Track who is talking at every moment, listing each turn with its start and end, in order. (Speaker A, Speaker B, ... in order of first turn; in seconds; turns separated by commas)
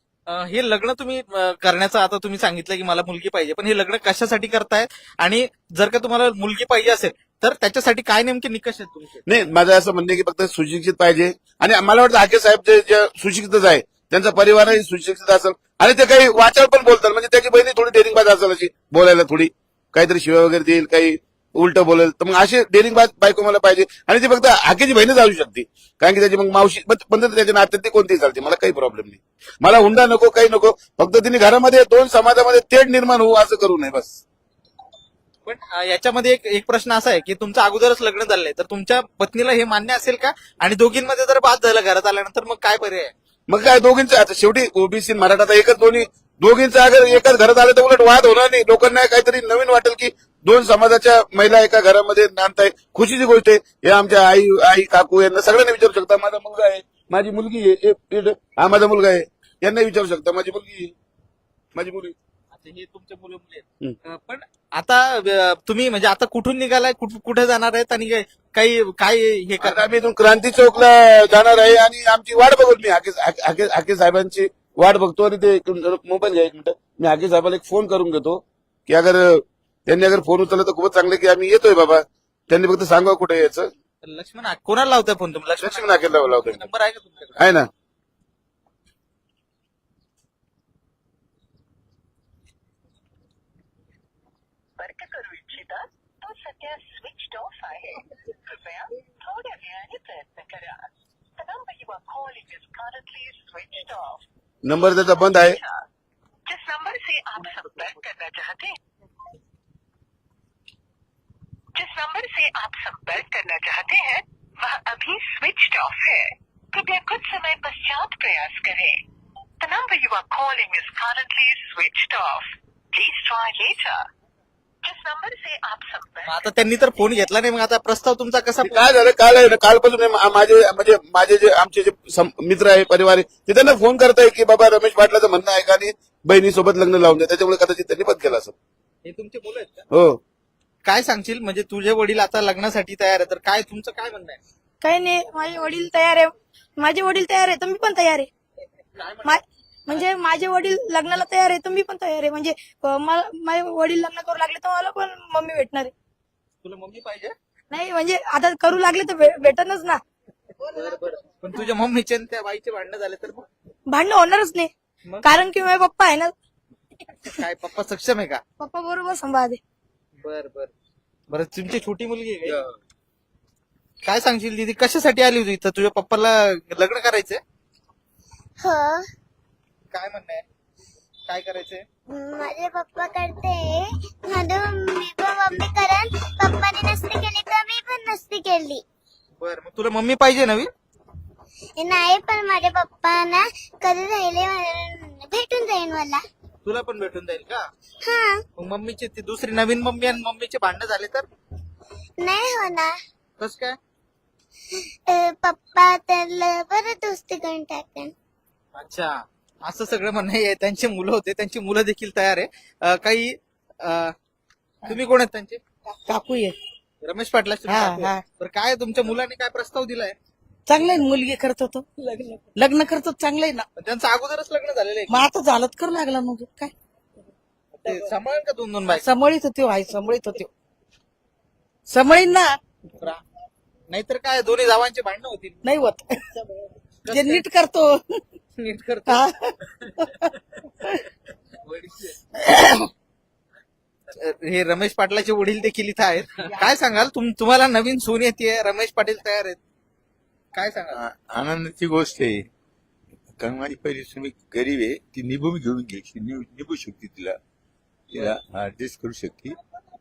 Speaker A: 0.3-9.2, Speaker B: 9.3-34.2, Speaker A: 35.5-43.1, Speaker B: 43.5-60.9, Speaker B: 61.7-62.1, Speaker A: 62.5-69.8, Speaker B: 69.6-83.7, Speaker A: 84.0-87.4, Speaker B: 85.6-86.7, Speaker B: 87.4-87.7, Speaker C: 94.8-100.8, Speaker C: 101.4-104.2, Speaker B: 104.6-105.6, Speaker C: 105.1-105.7, Speaker C: 106.5-108.8, Speaker C: 111.7-119.0, Speaker C: 119.6-124.0, Speaker C: 124.8-126.5, Speaker A: 126.2-128.8, Speaker B: 128.6-138.5, Speaker A: 139.0-139.8, Speaker B: 139.9-140.2, Speaker A: 140.8-144.4, Speaker D: 144.8-148.3, Speaker A: 149.0-149.3, Speaker D: 149.2-155.9, Speaker A: 156.6-157.3, Speaker D: 157.7-160.0, Speaker A: 160.7-163.5, Speaker D: 163.9-164.7, Speaker D: 165.2-166.3, Speaker A: 167.4-168.4, Speaker D: 168.6-169.6, Speaker A: 170.2-170.7, Speaker A: 171.3-172.6, Speaker A: 174.0-177.4, Speaker E: 178.6-179.1, Speaker A: 179.9-180.4, Speaker A: 181.3-181.8, Speaker E: 182.1-188.8, Speaker A: 189.4-190.7, Speaker E: 191.8-196.2, Speaker A: 196.6-197.6, Speaker E: 198.0-198.4, Speaker A: 198.6-201.2, Speaker E: 202.2-202.9, Speaker A: 203.4-203.8, Speaker E: 204.7-208.1, Speaker A: 208.8-214.1, Speaker A: 214.9-215.6, Speaker F: 216.1-216.6, Speaker A: 217.0-220.1, Speaker F: 217.7-218.2, Speaker F: 220.7-223.6, Speaker A: 223.8-225.2, Speaker F: 225.1-226.7, Speaker A: 227.8-229.0, Speaker F: 228.9-230.5, Speaker F: 231.9-232.6, Speaker A: 233.9-235.6, Speaker F: 235.6-236.2, Speaker A: 237.1-237.4, Speaker F: 237.1-238.2, Speaker A: 238.6-239.2, Speaker F: 239.1-239.5, Speaker A: 244.1-249.6, Speaker A: 250.5-251.0, Speaker G: 250.9-252.5, Speaker G: 253.4-257.4, Speaker G: 258.1-259.6